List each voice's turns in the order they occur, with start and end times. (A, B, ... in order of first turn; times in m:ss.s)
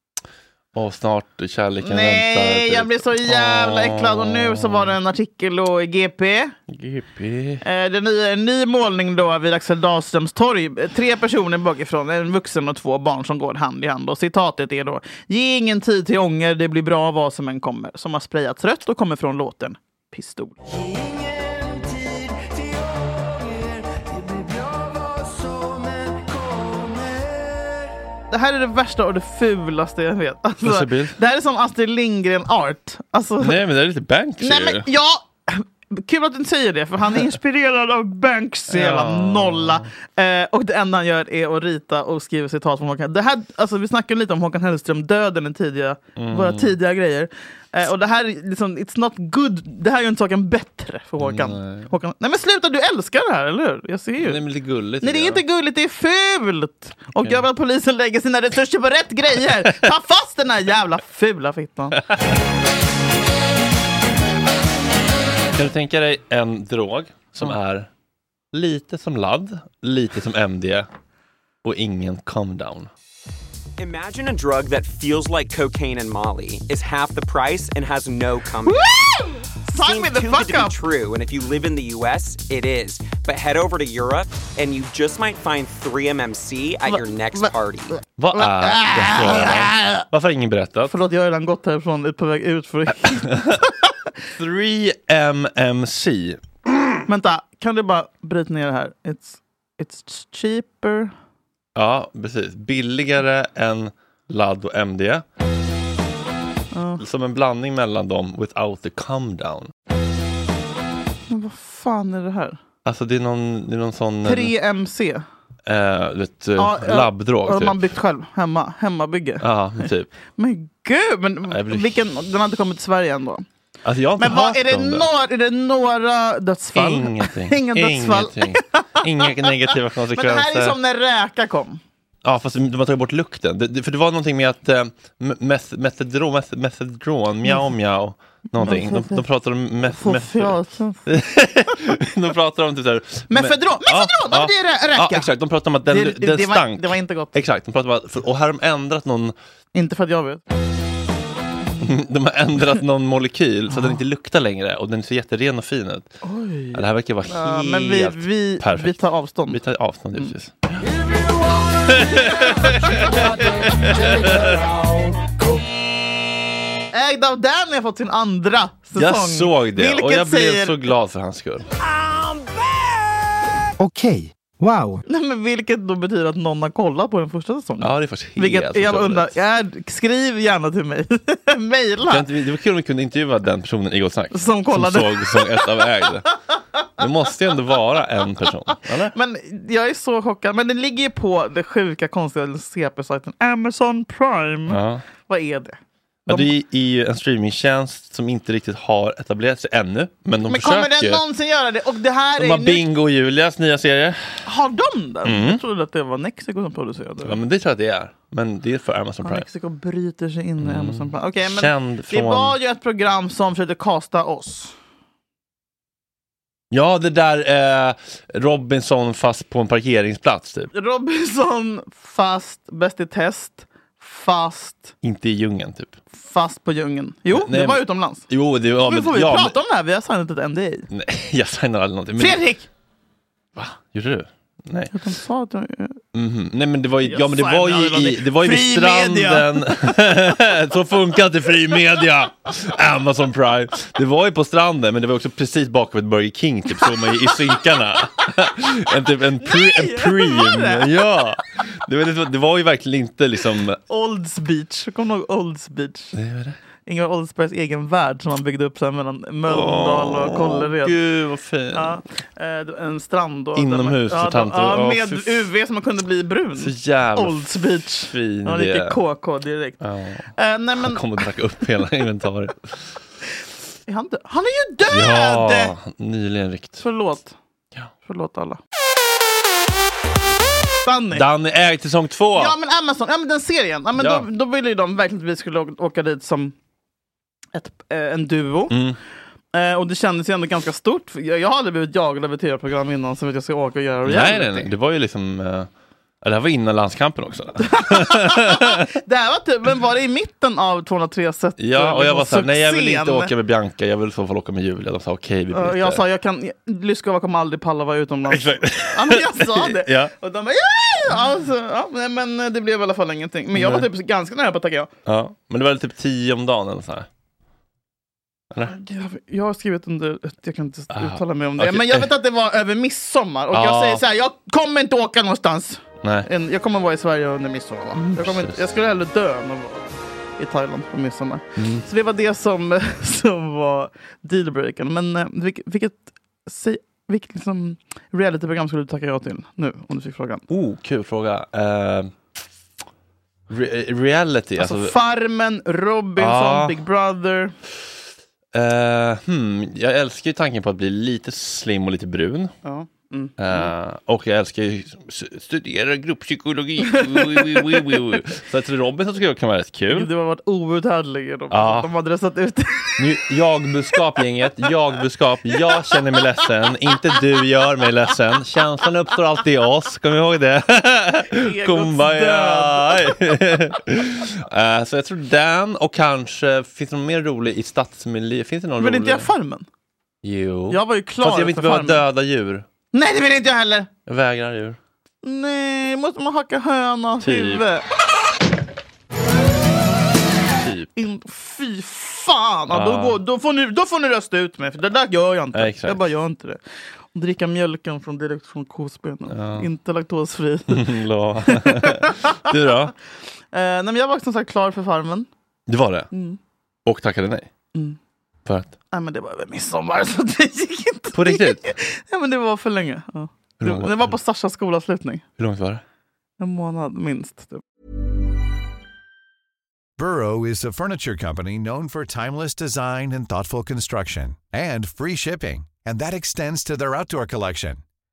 0:00.7-0:04.9 A
0:01.8-0:06.5 B
0:06.7-0:07.6 A
0:07.6-0:20.6 B
0:28.3-0:33.6 B
0:30.6-0:31.1 A
0:33.4-0:34.8 A
0:34.4-0:54.4 B
0:38.7-0:39.8 A
0:46.2-0:46.7 A
0:51.2-0:51.9 A
0:54.2-0:55.4 A
0:55.0-1:02.0 B
0:57.2-0:57.4 A
1:05.5-1:07.9 A
1:08.5-1:10.9 A
1:11.6-1:12.9 A
1:13.8-1:19.1 C
1:18.6-1:20.7 B
1:19.8-1:27.9 C
1:26.9-1:27.5 B
1:28.2-1:30.9 A
1:28.3-1:30.0 B
1:30.9-1:33.9 B
1:33.1-1:33.5 A
1:34.4-1:36.9 A
1:37.1-1:41.1 B
1:41.7-1:45.2 A
1:46.7-1:47.0 B
1:47.0-1:49.7 A
1:51.3-1:52.6 B
1:52.8-1:54.5 A
1:54.2-1:55.2 B
1:55.6-1:57.7 A
1:56.6-1:59.4 B
1:59.4-2:00.1 A
2:00.3-2:03.4 B
2:01.5-2:01.9 A
2:03.8-2:05.1 A
2:04.2-2:09.5 B
2:06.7-2:10.7 A
2:10.1-2:11.8 B
2:12.2-2:29.3 A
2:18.6-2:19.2 B
2:19.9-2:21.1 B
2:23.3-2:25.3 B
2:25.8-2:27.4 B
2:29.7-2:30.4 B
2:31.6-2:31.9 B
2:31.8-2:36.1 A
2:33.7-2:34.0 B
2:36.2-2:39.6 B
2:36.7-2:40.9 A
2:41.8-2:44.6 A
2:46.9-2:50.8 B
2:49.0-2:51.7 A
2:55.1-3:02.3 B
2:57.8-2:59.3 A
3:02.1-3:06.4 A
3:04.3-3:05.8 B
3:07.0-3:09.1 A
3:09.1-3:16.5 B
3:14.7-3:15.0 A
3:16.3-3:21.2 A
3:20.4-3:22.8 B
3:22.4-3:24.4 A
3:24.4-3:27.4 B
3:25.2-3:25.6 A
3:27.2-3:29.4 A
3:29.2-3:34.7 B
3:30.6-3:32.5 A
3:36.7-3:40.7 A
3:40.7-3:44.9 B
3:45.0-3:46.0 A
3:46.2-3:48.2 B
3:47.3-3:49.5 A
3:48.8-3:50.9 B
3:50.9-3:52.4 A
3:52.2-3:52.6 B
3:53.6-3:54.9 A
3:54.9-3:56.0 B
3:56.1-4:13.8 A
3:57.0-3:59.5 B
4:09.4-4:10.9 B
4:13.9-4:16.1 B
4:16.1-4:16.6 A
4:16.8-4:21.0 B
4:19.5-4:22.0 A
4:21.7-4:29.8 B
4:23.5-4:25.5 A
4:26.6-4:29.0 A
4:29.8-4:30.1 A
4:30.3-4:31.2 B
4:30.7-4:32.8 A
4:33.9-4:35.7 B
4:34.9-4:36.8 A
4:36.8-4:37.3 B
4:38.0-4:38.6 B
4:40.8-4:41.2 B
4:41.1-4:42.5 A
4:42.3-4:46.5 B
4:43.9-4:44.2 A
4:47.5-4:48.8 B
4:48.7-4:49.0 A
4:49.5-4:54.7 B
4:54.0-4:55.7 A
4:56.2-4:58.8 A
4:57.6-5:03.3 B
5:01.6-5:06.0 A
5:05.5-5:14.9 B
5:08.3-5:10.1 A
5:13.5-5:13.9 A
5:15.0-5:17.1 A
5:18.6-5:40.4 B
5:20.9-5:22.1 A
5:23.5-5:24.0 A
5:28.0-5:28.8 A
5:31.6-5:31.8 A
5:40.5-5:42.1 A
5:43.5-5:44.9 A
5:44.6-5:47.5 B
5:46.2-5:46.8 A
5:48.5-5:52.5 A
5:52.6-5:53.7 B
5:53.4-6:00.1 A
5:56.8-5:57.9 B
5:59.9-6:03.2 B
6:01.5-6:01.9 A
6:03.0-6:19.3 A
6:05.6-6:06.4 B
6:11.3-6:13.1 B
6:18.8-6:19.6 B
6:20.2-6:22.6 A
6:20.7-6:22.0 B
6:22.9-6:23.9 B
6:24.0-6:24.8 A
6:25.2-6:27.8 B
6:27.2-6:27.6 A
6:30.6-6:30.9 A
6:31.0-6:36.6 B
6:32.7-6:33.2 A
6:35.5-6:36.0 A
6:37.1-6:40.9 B
6:39.3-6:39.7 A
6:40.7-6:42.9 A
6:41.4-6:42.1 B
6:43.5-6:45.3 B
6:45.7-6:46.1 A
6:46.1-6:46.4 B
6:46.8-6:47.5 A
6:48.4-6:48.7 A
6:48.9-6:55.2 B
6:51.1-6:51.6 A
6:53.6-6:54.1 A
6:55.4-6:55.8 A
6:56.4-6:57.6 B
7:00.0-7:07.8 D